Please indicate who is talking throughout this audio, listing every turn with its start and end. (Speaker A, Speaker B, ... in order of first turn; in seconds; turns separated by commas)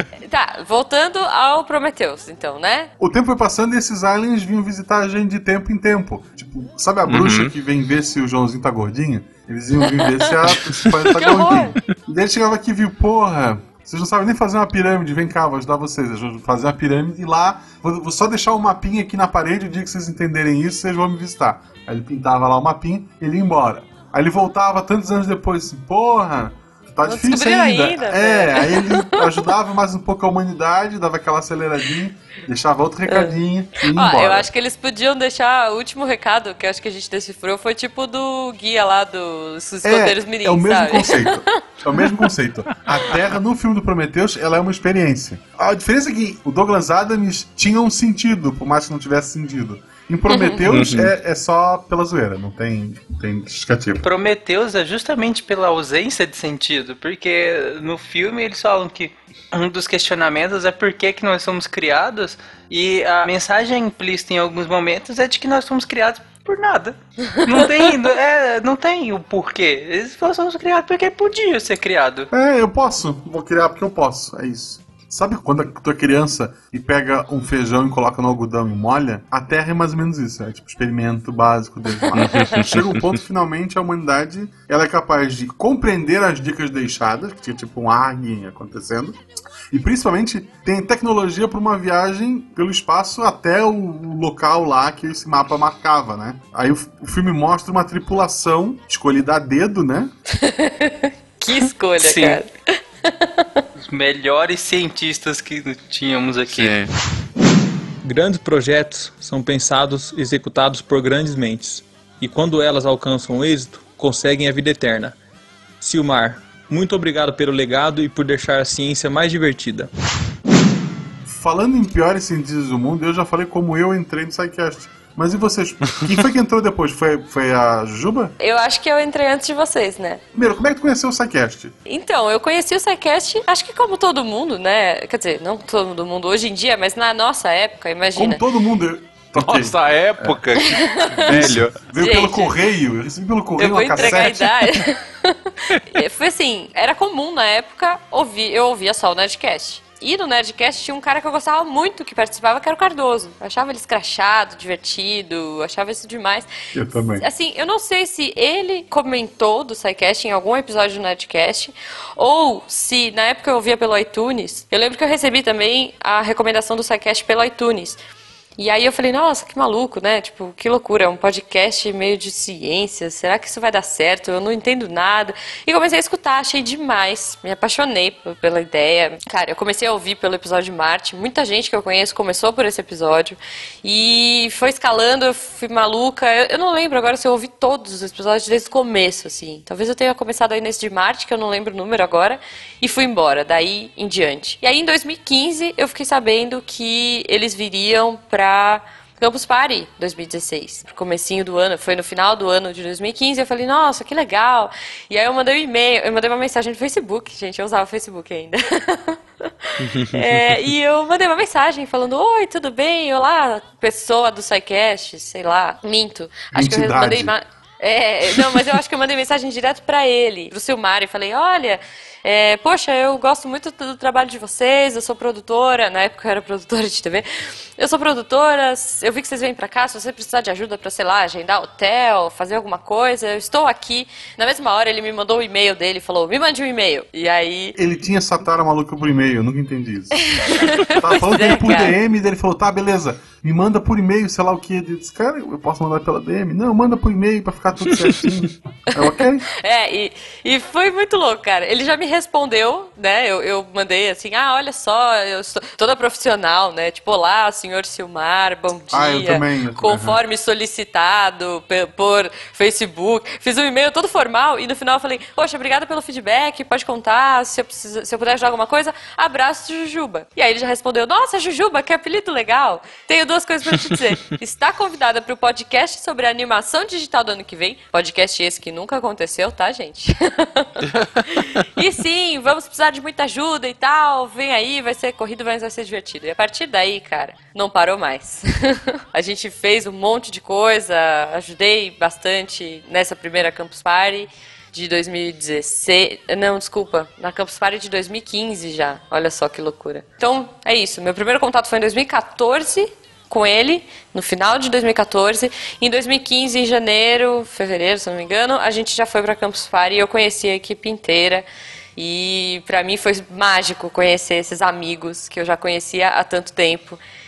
Speaker A: 0.3-2.9, Speaker B: 3.0-34.5, Speaker C: 7.0-7.5, Speaker C: 10.5-11.3, Speaker A: 11.1-11.8, Speaker A: 27.0-29.0, Speaker A: 33.1-33.4, Speaker A: 33.9-41.3, Speaker B: 39.8-54.0, Speaker A: 50.3-50.6, Speaker C: 50.7-51.1, Speaker D: 54.0-72.3, Speaker B: 72.3-89.2, Speaker C: 82.1-82.9, Speaker B: 89.7-100.1, Speaker A: 100.4-102.5, Speaker D: 102.0-102.4, Speaker A: 103.0-103.4, Speaker D: 103.8-106.8, Speaker C: 106.5-106.8, Speaker E: 108.0-115.1, Speaker E: 115.8-119.9, Speaker B: 121.3-128.3, Speaker A: 128.4-130.2, Speaker B: 130.3-131.7, Speaker A: 131.8-138.4, Speaker B: 138.1-140.3, Speaker C: 139.4-141.7, Speaker A: 140.7-141.2, Speaker B: 141.2-144.6, Speaker A: 142.0-142.5, Speaker A: 143.6-145.3, Speaker A: 145.9-156.5, Speaker B: 156.7-157.2, Speaker A: 157.2-168.0, Speaker A: 168.6-209.5, Speaker C: 209.8-210.5, Speaker A: 210.1-227.2, Speaker B: 216.5-217.3, Speaker A: 227.8-237.8, Speaker B: 237.8-249.4, Speaker A: 240.3-241.9, Speaker A: 249.6-311.4, Speaker B: 258.9-260.2, Speaker A: 311.9-317.0